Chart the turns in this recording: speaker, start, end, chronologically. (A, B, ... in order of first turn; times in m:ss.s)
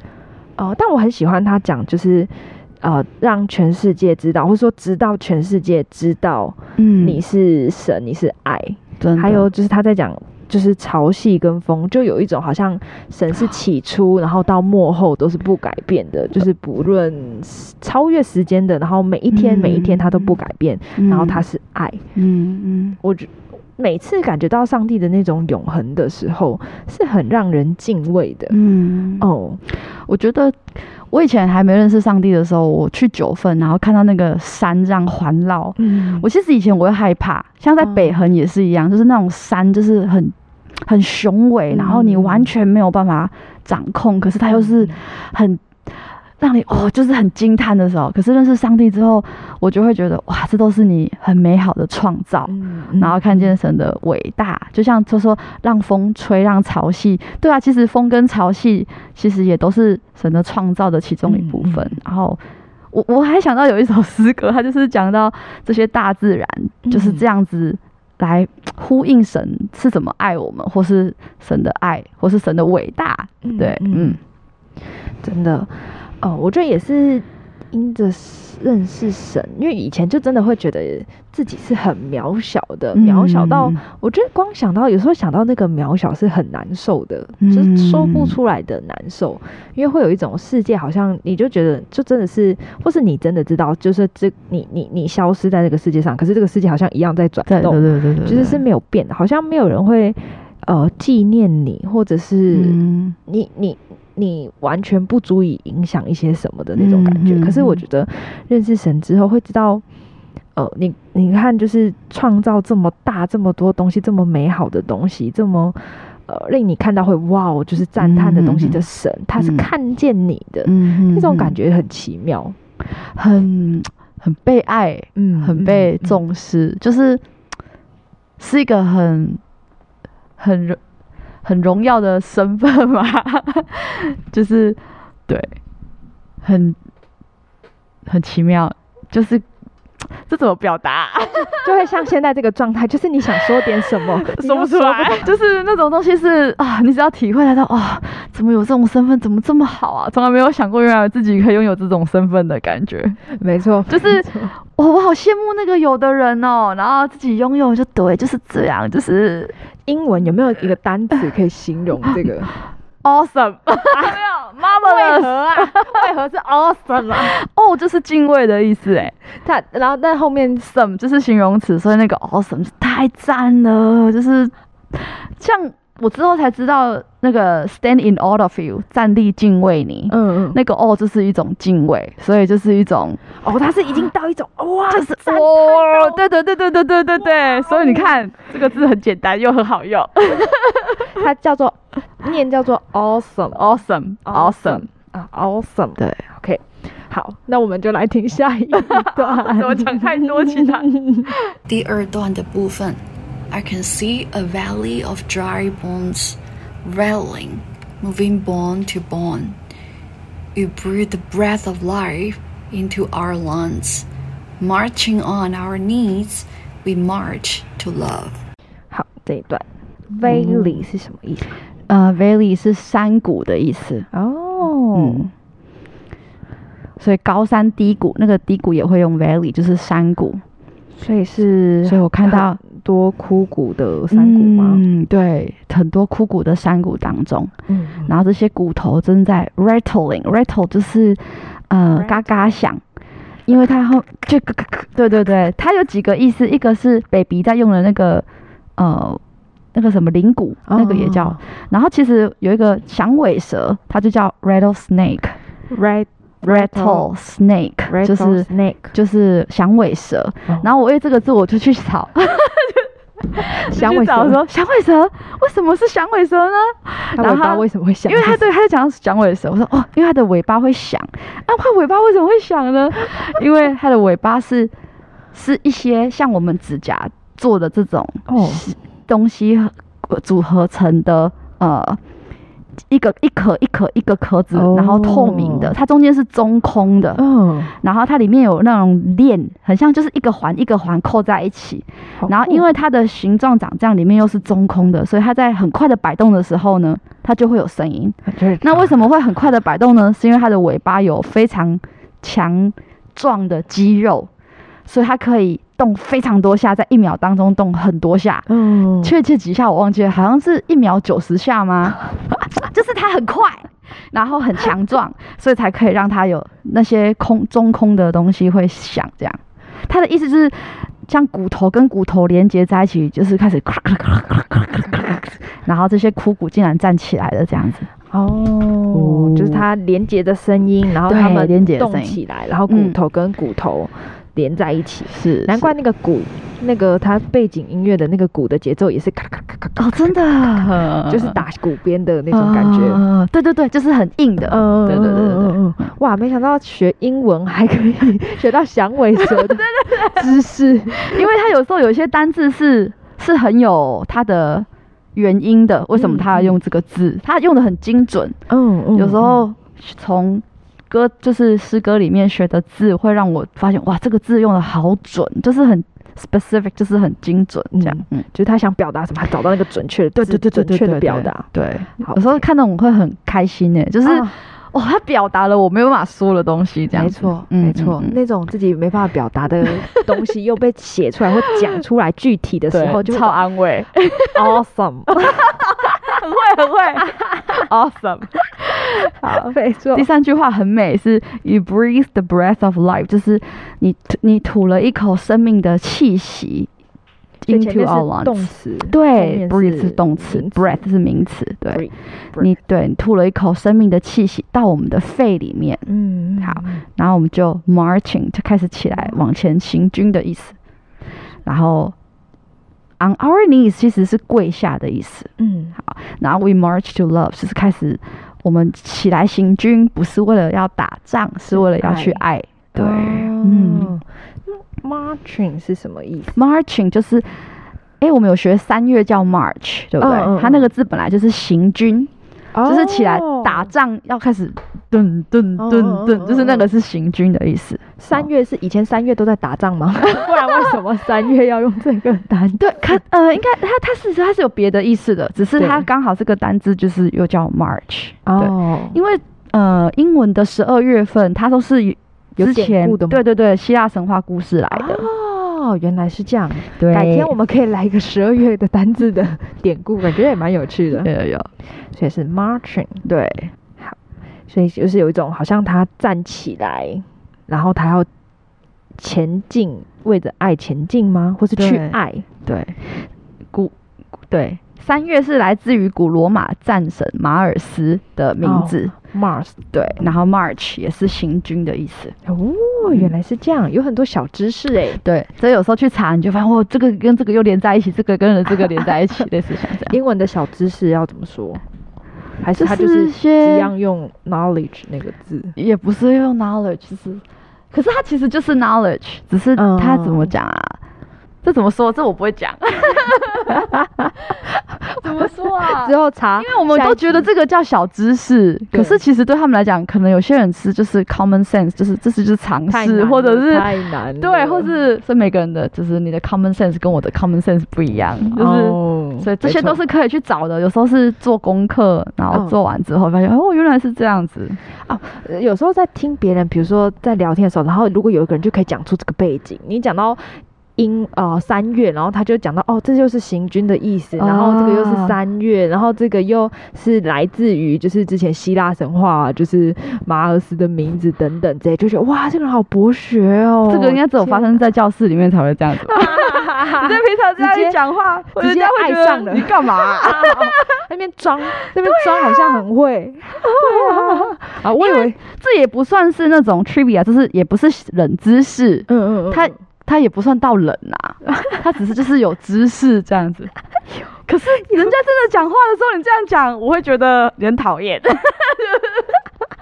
0:00.6-0:22.0 A
0:06.8-0:07.2 B
0:09.0-0:09.5 B
0:19.3-0:20.4 B
0:21.0-0:21.4 B
0:22.2-0:23.0 B
0:23.0-0:28.6 A
0:28.5-1:02.4 B
0:29.2-0:29.6 A
0:35.8-0:36.3 A
0:37.8-0:38.2 A
0:41.7-0:42.5 A
0:44.5-0:45.0 A
0:52.5-0:53.5 A
1:01.3-1:01.9 A
1:02.9-1:14.2 B
1:06.8-1:07.2 A
1:13.4-1:14.2 A
1:15.2-1:49.8 A
1:22.9-1:23.8 B
1:27.4-1:28.4 B
1:37.5-1:38.6 B
1:42.5-1:43.2 B
1:46.8-1:47.8 B
1:50.6-2:02.6 A
1:58.0-1:58.8 B
1:59.4-1:59.7 B
2:00.6-2:01.6 B
2:02.9-2:07.2 B
2:05.2-2:06.2 A
2:08.4-2:09.4 B
2:10.4-2:10.8 B
2:11.4-2:15.6 B
2:16.4-2:16.8 B
2:18.1-2:19.5 B
2:20.0-2:21.7 B
2:21.5-2:25.3 A
2:23.6-2:33.2 B
2:33.3-2:34.5 A
2:33.9-2:39.5 B
2:39.9-2:42.5 A
2:43.0-2:46.0 B
2:43.9-2:47.4 A
2:47.2-2:49.2 B
2:49.4-2:50.6 A
2:50.6-3:03.2 B
3:00.1-3:00.6 A
3:03.4-3:06.2 A
3:04.9-3:11.2 B
3:07.5-3:08.1 A
3:11.1-3:21.3 A
3:13.6-3:14.9 B
3:18.8-3:21.5 B
3:21.7-3:29.6 C
3:30.6-3:34.1 C
3:34.6-3:38.4 C
3:38.9-3:41.6 A
3:40.2-3:40.8 B
3:41.9-3:44.1 B
3:44.1-3:45.3 A
3:45.0-3:45.3 B
3:47.0-3:50.4 B
3:51.0-3:54.8 A
3:51.8-3:52.6 B
3:54.1-3:57.5 B
3:57.7-3:58.1 A
3:58.1-4:02.8 B
4:02.0-4:02.6 A
4:03.5-4:08.3 B
4:08.8-4:09.2 B
4:09.7-4:15.4 B
4:10.7-4:11.4 A
4:15.7-4:17.1 A
4:16.4-4:34.7 B
4:17.9-4:18.9 A
4:23.6-4:24.4 A
4:27.2-4:28.5 A
4:35.3-4:42.0 B
4:38.3-4:38.7 A
4:42.9-4:47.2 B
4:44.5-4:45.7 A
4:47.2-4:47.7 A
4:47.8-5:04.3 B
4:52.2-4:52.7 A
4:58.3-4:58.9 A
5:04.9-5:08.5 B
5:08.5-5:09.1 A
5:09.0-5:27.9 B
5:28.1-5:43.0 A
5:28.9-5:29.6 B
5:31.0-5:33.0 B
5:35.1-5:35.7 B
5:39.8-5:41.4 B
5:42.3-5:45.6 B
5:44.5-5:51.2 A
5:49.2-5:50.4 B
5:51.0-5:58.4 B
5:56.0-5:56.6 A
5:58.5-5:59.4 A
5:59.0-6:08.2 B
6:07.7-6:12.4 A
6:10.2-6:18.2 B
6:14.0-6:14.4 A
6:16.9-6:23.4 A
6:22.7-6:24.5 B
6:24.3-6:25.4 A
6:25.3-6:36.7 B
6:29.3-6:30.1 A
6:37.4-6:45.8 B
6:37.5-6:40.8 A
6:41.7-6:42.5 A
6:45.9-6:46.8 A
6:46.4-6:50.6 B
6:51.4-6:52.0 B
6:53.0-7:03.9 B
6:55.4-6:55.7 A
7:01.5-7:02.2 A
7:02.8-7:06.4 A
7:06.4-7:07.4 B
7:08.0-7:12.1 B
7:10.0-7:10.7 A
7:12.5-7:13.7 A
7:12.6-7:17.8 B
7:15.6-7:16.7 A
7:18.0-7:22.7 A
7:22.6-7:35.1 B
7:25.6-7:25.9 A
7:28.3-7:29.0 A
7:32.4-7:33.2 A
7:34.7-7:41.1 A
7:36.8-7:37.3 B
7:41.0-7:41.5 B
7:41.8-7:43.0 A
7:43.0-7:43.5 B
7:44.5-7:48.1 A
7:49.0-7:52.2 A
7:51.6-7:53.7 B
7:54.3-7:58.9 B
7:58.4-7:59.6 A
7:59.7-8:02.2 B
8:02.3-8:05.0 A
8:02.9-8:03.1 B
8:05.0-8:10.0 B
8:09.9-8:11.6 A
8:12.4-8:15.6 A
8:12.6-8:13.7 B
8:15.6-8:20.8 B
8:19.6-8:20.3 A
8:21.4-8:24.4 B
8:23.6-8:24.1 A
8:24.9-8:27.3 A
8:25.0-8:44.6 B
8:28.7-8:29.0 A
8:32.7-8:34.7 A
8:38.3-8:39.8 A
8:44.8-9:04.5 A
8:54.2-8:55.2 B
9:03.7-9:10.8 B
9:05.9-9:07.8 A
9:08.3-9:15.2 A
9:11.8-9:12.6 B
9:13.4-9:23.5 B
9:18.9-9:19.5 A
9:24.3-9:29.3 B
9:24.6-9:25.0 A